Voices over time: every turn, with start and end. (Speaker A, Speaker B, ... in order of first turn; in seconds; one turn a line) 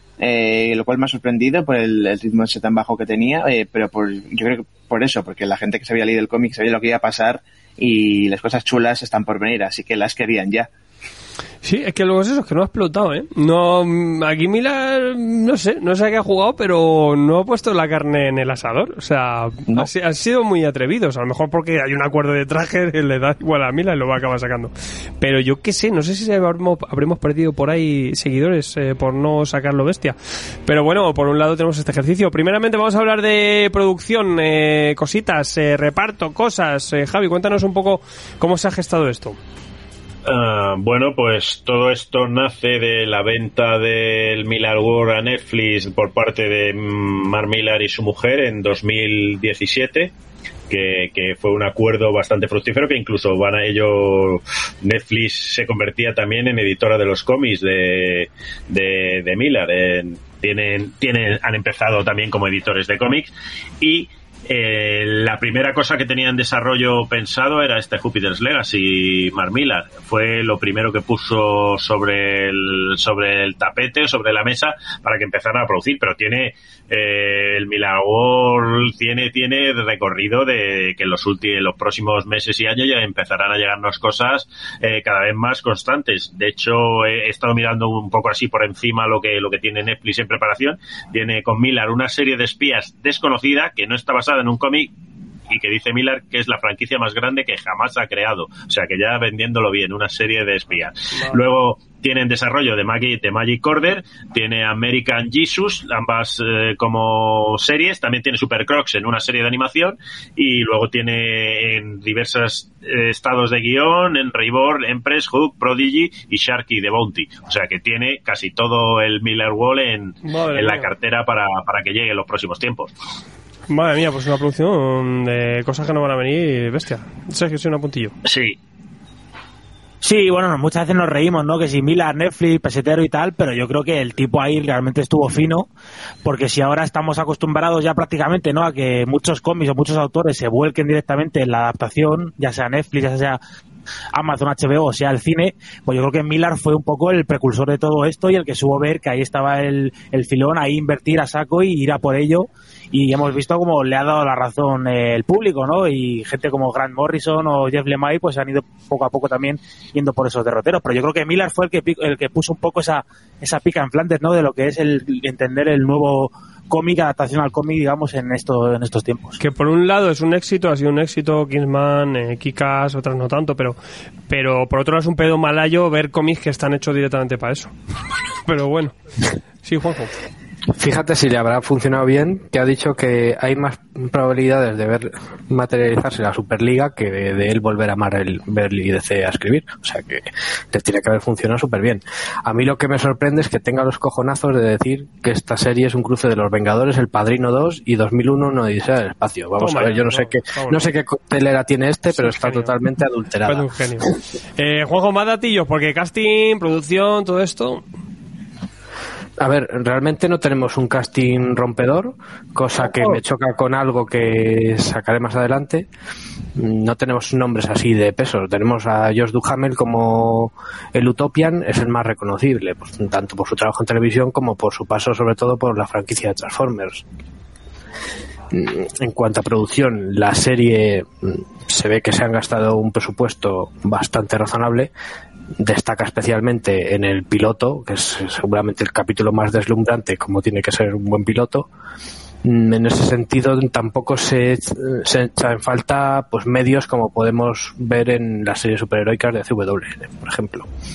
Speaker A: 0.2-10.7
Speaker B: 11.6-39.4
Speaker C: 40.3-50.1
Speaker C: 50.7-94.9
Speaker C: 95.5-122.9
Speaker B: 120.2-120.9
Speaker B: 123.7-128.1
Speaker C: 128.2-128.6
Speaker D: 130.0-135.7
Speaker D: 136.2-143.4
Speaker D: 144.1-169.4
Speaker B: 169.4-173.8
Speaker B: 174.3-177.7
Speaker B: 178.5-178.9
Speaker B: 179.6-180.1
Speaker E: 180.7-204.0
Speaker B: 199.6-200.8
Speaker B: 202.2-202.7
Speaker B: 203.5-207.8
Speaker E: 209.4-215.9
Speaker E: 216.6-227.1
Speaker E: 228.5-234.9
Speaker E: 235.6-241.7
Speaker E: 242.4-250.7